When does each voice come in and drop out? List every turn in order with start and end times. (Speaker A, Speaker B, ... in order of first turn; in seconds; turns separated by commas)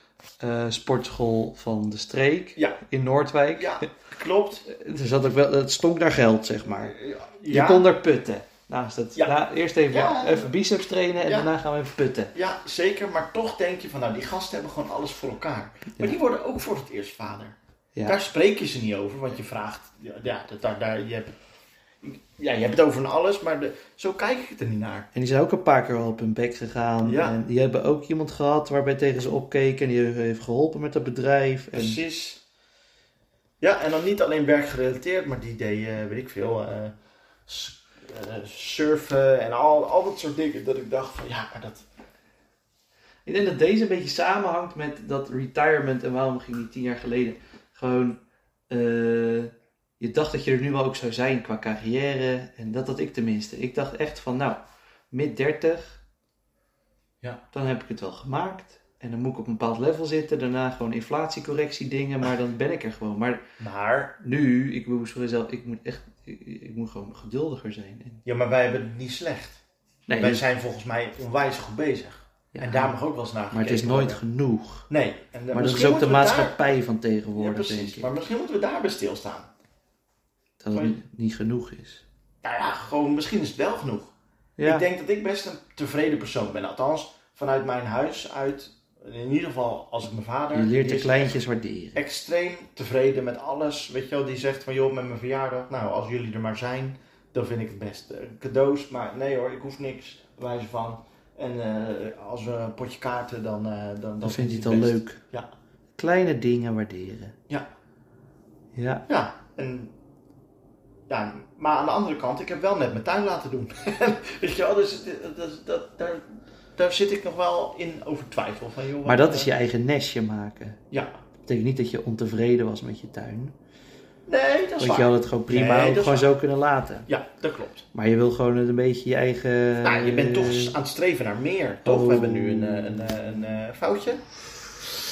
Speaker A: 0.4-3.9, Speaker B: 3.5-4.7, Speaker A: 4.7-7.0, Speaker B: 6.7-7.9, Speaker A: 7.5-12.3, Speaker B: 9.9-10.5, Speaker B: 11.2-11.5, Speaker B: 12.3-21.4, Speaker B: 22.0-25.1, Speaker A: 25.1-32.0, Speaker B: 27.0-27.4, Speaker B: 31.7-32.4, Speaker B: 33.6-36.9, Speaker B: 37.5-41.9, Speaker A: 43.3-48.2, Speaker A: 48.7-54.6, Speaker A: 55.1-56.0, Speaker A: 57.5-63.5, Speaker B: 63.6-64.2, Speaker A: 64.2-68.2, Speaker B: 68.2-69.6, Speaker A: 70.1-70.4, Speaker B: 70.2-74.2, Speaker A: 72.5-72.9, Speaker A: 73.5-74.9, Speaker B: 74.9-76.7, Speaker A: 75.5-78.1, Speaker B: 77.4-79.5, Speaker A: 80.6-82.0, Speaker B: 82.4-84.1, Speaker A: 84.6-84.9, Speaker B: 84.7-91.4, Speaker A: 90.5-92.0, Speaker B: 92.0-105.5, Speaker A: 104.2-105.2, Speaker A: 106.0-107.3, Speaker A: 108.8-109.0, Speaker B: 109.1-109.9, Speaker B: 111.1-119.5, Speaker A: 119.0-120.8, Speaker A: 121.5-123.5, Speaker B: 124.3-126.3, Speaker A: 124.8-127.1, Speaker B: 127.1-127.9, Speaker A: 127.9-130.8, Speaker B: 129.8-134.2, Speaker A: 131.8-133.2